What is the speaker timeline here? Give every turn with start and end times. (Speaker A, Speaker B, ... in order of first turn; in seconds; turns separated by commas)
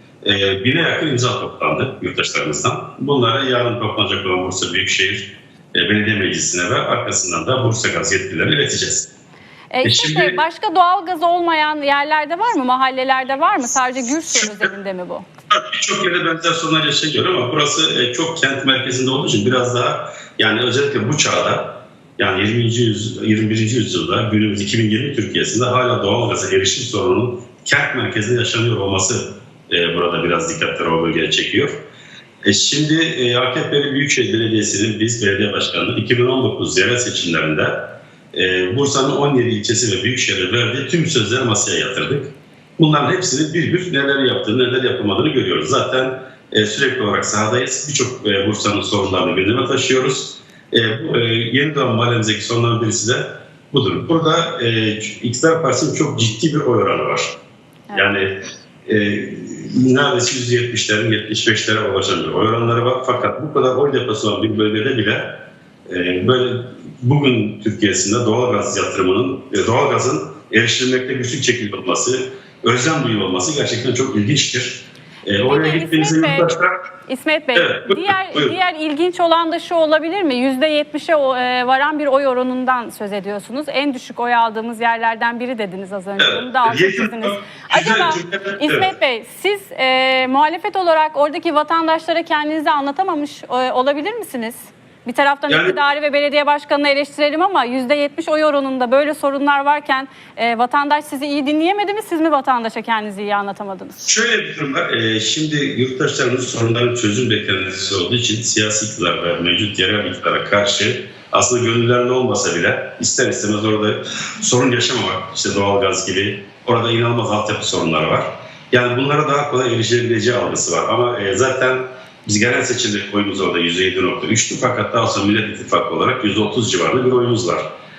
Speaker A: 0.2-9.1, Speaker B: 9.7-15.3, Speaker A: 9.8-10.4, Speaker A: 15.5-31.8, Speaker A: 32.4-57.4, Speaker B: 57.9-58.2, Speaker A: 57.9-76.9, Speaker B: 75.5-76.5, Speaker B: 77.1-104.0, Speaker A: 77.5-78.5, Speaker A: 86.2-88.9, Speaker A: 95.5-95.8, Speaker A: 104.0-127.6